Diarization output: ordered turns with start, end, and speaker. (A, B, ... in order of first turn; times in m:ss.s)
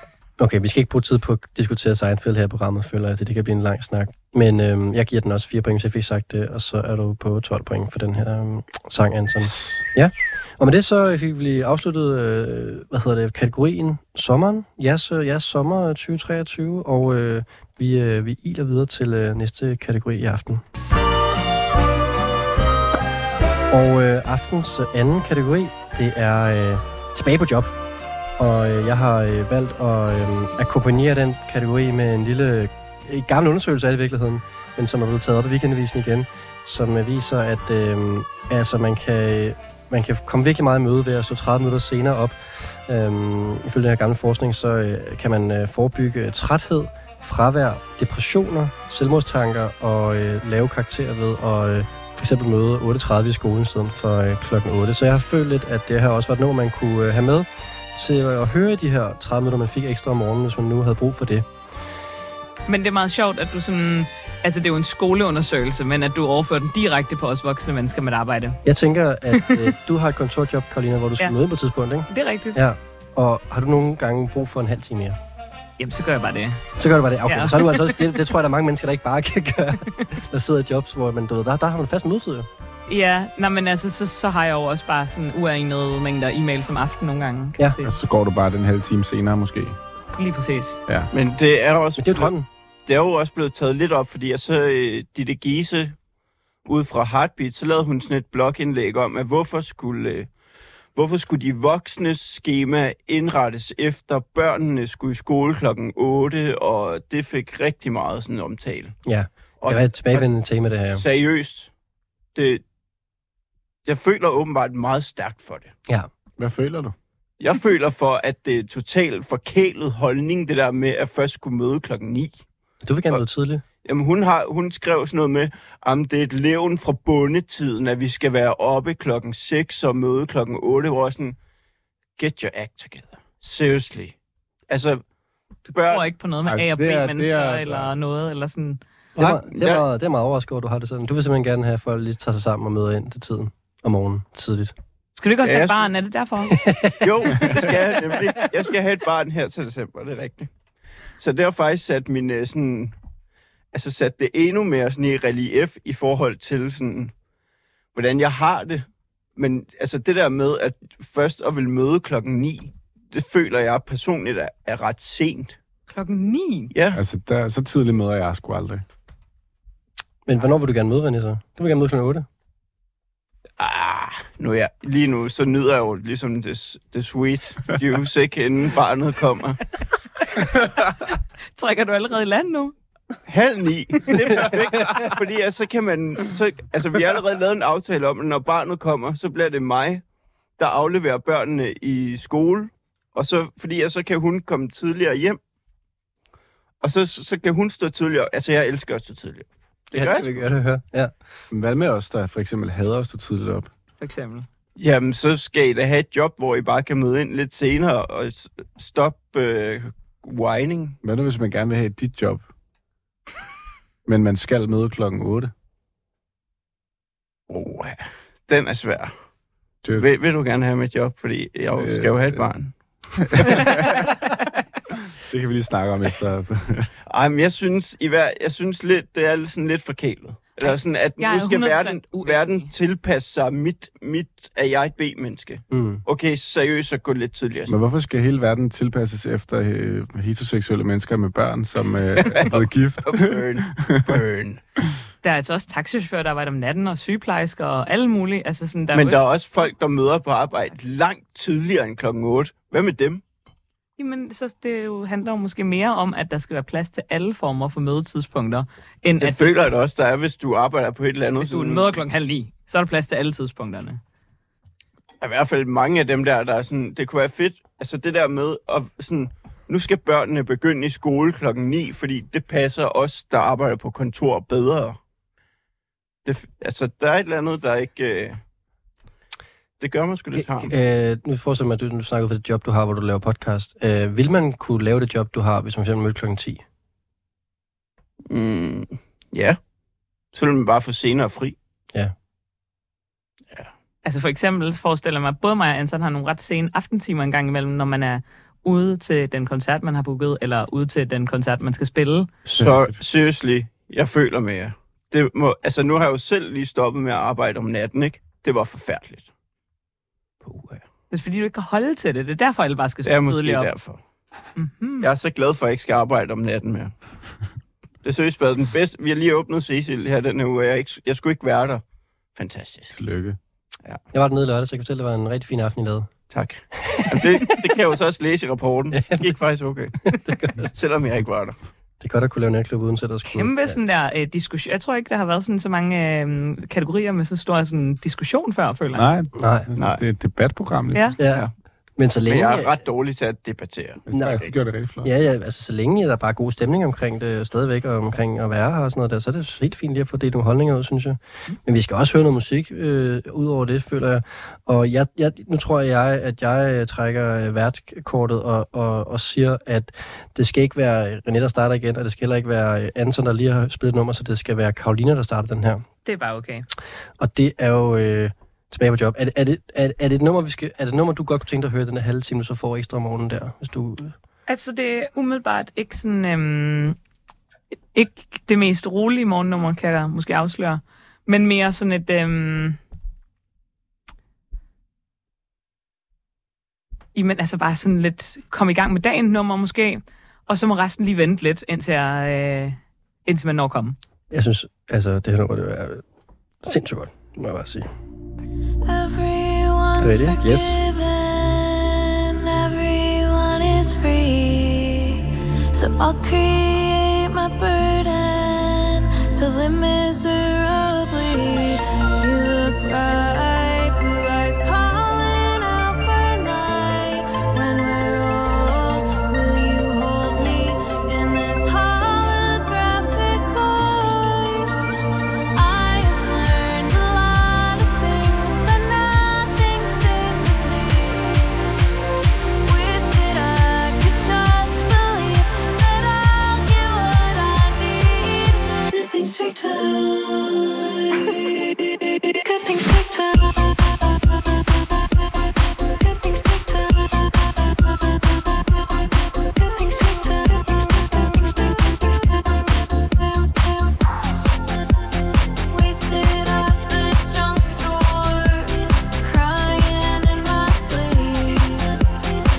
0:00.4-0:20.6 A
0:23.7-0:27.8 A
0:28.4-1:01.5 A
1:02.7-1:08.6 B
1:08.6-1:15.2 A
1:09.3-1:09.6 B
1:12.1-1:12.6 B
1:15.8-1:16.6 B
1:16.8-1:22.5 A
1:17.2-1:18.1 B
1:22.9-1:27.9 B
1:27.8-1:29.8 C
1:30.2-1:30.8 B
1:31.1-1:32.3 D
1:32.0-1:32.5 A
1:32.8-1:35.9 D
1:36.6-1:40.3 D
1:40.9-1:49.0 D
1:49.0-1:51.0 A
1:49.6-1:50.2 D
1:50.9-1:51.7 D
1:52.3-1:52.6 D
1:53.8-1:55.7 D
1:56.4-1:56.9 C
1:57.4-2:02.4 D
2:02.8-2:03.6 A
2:03.8-2:11.4 D
2:12.2-2:14.1 D
2:14.7-2:15.0 D
2:15.7-2:18.8 B
2:15.7-2:16.0 D
2:16.4-2:17.9 C
2:19.2-2:24.7 A
2:19.2-2:19.8 D
2:25.2-2:26.6 B
2:25.4-2:25.9 D
2:26.5-2:27.6 A
2:27.0-2:30.5 D
2:31.2-2:32.9 D
2:33.7-2:37.1 D
2:37.9-2:45.6 D
2:45.9-2:46.7 B
2:46.7-2:47.0 D
2:46.9-2:48.8 C
2:50.2-2:52.2 A
2:53.6-2:59.6 D
3:01.6-3:02.7 B
3:03.3-3:10.0 D
3:10.6-3:15.4 D
3:16.8-3:20.4 D
3:19.9-3:21.1 A
3:21.5-3:23.7 C
3:24.0-3:24.5 B
3:24.8-3:31.0 D
3:31.0-3:32.4 C
3:34.0-3:35.5 C
3:37.5-3:39.1 D
3:40.0-3:42.7 D
3:41.8-3:42.5 C
3:43.2-3:44.1 C
3:43.4-3:43.8 D
3:45.3-3:46.9 C
3:47.1-3:57.7 D
3:50.6-3:52.7 B
3:55.7-3:56.0 A
3:57.7-4:04.1 C
4:02.2-4:04.6 D
4:05.2-4:09.2 B
4:08.9-4:13.2 D
4:14.0-4:19.8 B
4:19.2-4:22.1 D
4:21.4-4:24.0 B
4:25.2-4:35.0 D
4:36.2-4:38.4 D
4:39.8-4:40.7 D
4:40.3-4:46.6 A
4:48.3-4:49.6 D
4:50.3-4:51.5 D
4:54.0-5:02.3 B
5:02.5-5:03.0 C
5:02.5-5:09.3 D
5:11.1-5:13.7 B
5:13.0-5:14.0 D
5:14.6-5:15.1 B
5:15.0-5:16.9 D
5:18.0-5:21.8 D
5:22.3-5:22.9 D
5:22.9-5:23.4 C
5:24.1-5:26.1 A
5:26.3-5:30.0 D
5:26.8-5:27.6 A
5:28.9-5:29.2 A
5:30.1-5:30.7 A
5:30.7-5:31.6 D
5:32.0-5:33.8 A
5:33.2-5:39.1 B
5:38.9-5:41.2 C
5:39.4-5:39.6 A
5:39.8-5:40.0 D
5:41.2-5:41.4 A
5:42.0-5:42.7 A
5:42.2-5:44.0 D
5:44.1-5:45.1 C
5:44.1-5:44.4 A
5:45.0-6:05.8 A
6:06.0-6:06.6 B
6:07.2-6:14.1 A
6:14.5-6:17.0 B
6:17.9-6:22.8 B
6:27.1-6:34.0 B
6:34.3-6:36.0 A
6:36.6-6:37.9 A
6:38.8-7:04.8 E
6:40.0-6:40.8 A
7:05.5-7:11.8 E
7:12.6-7:24.1 E
7:25.9-7:34.0 E
7:35.7-7:42.0 E